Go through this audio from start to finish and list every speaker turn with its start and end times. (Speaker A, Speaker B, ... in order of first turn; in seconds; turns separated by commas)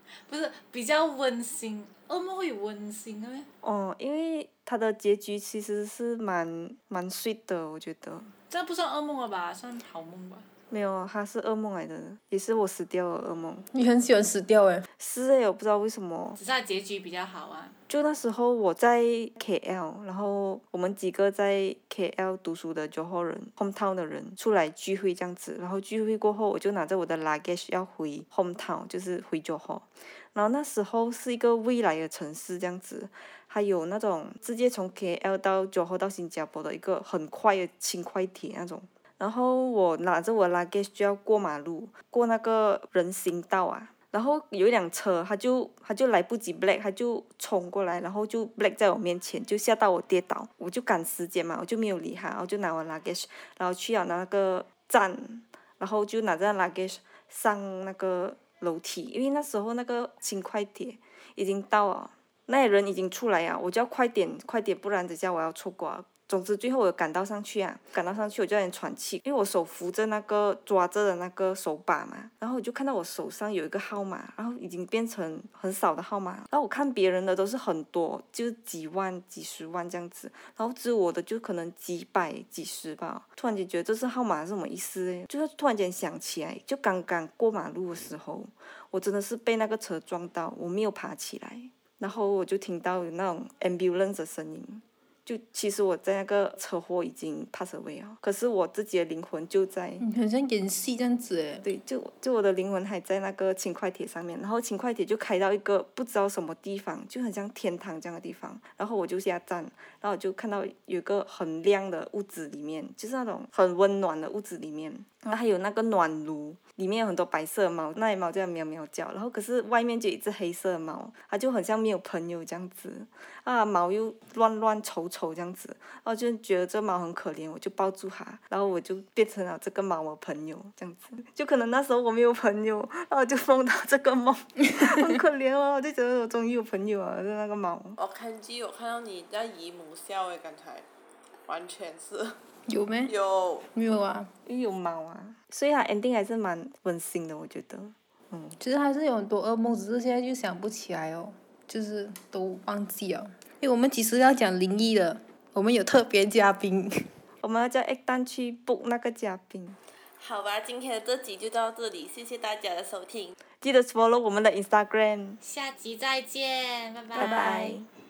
Speaker A: 0.2-3.5, Speaker B: 3.6-8.3, Speaker A: 8.5-10.5, Speaker B: 10.7-13.7, Speaker C: 13.7-14.9, Speaker B: 15.0-16.4, Speaker A: 16.4-17.8, Speaker B: 17.9-100.0, Speaker C: 100.0-101.6, Speaker B: 101.6-138.0, Speaker D: 138.0-140.8, Speaker D: 141.4-142.4, Speaker C: 142.7-143.1, Speaker D: 143.1-143.7, Speaker C: 143.7-144.3, Speaker B: 144.4-148.6, Speaker C: 148.6-157.1, Speaker B: 157.4-159.8, Speaker D: 160.2-163.3, Speaker B: 163.6-165.4, Speaker A: 165.4-167.8, Speaker B: 167.2-167.9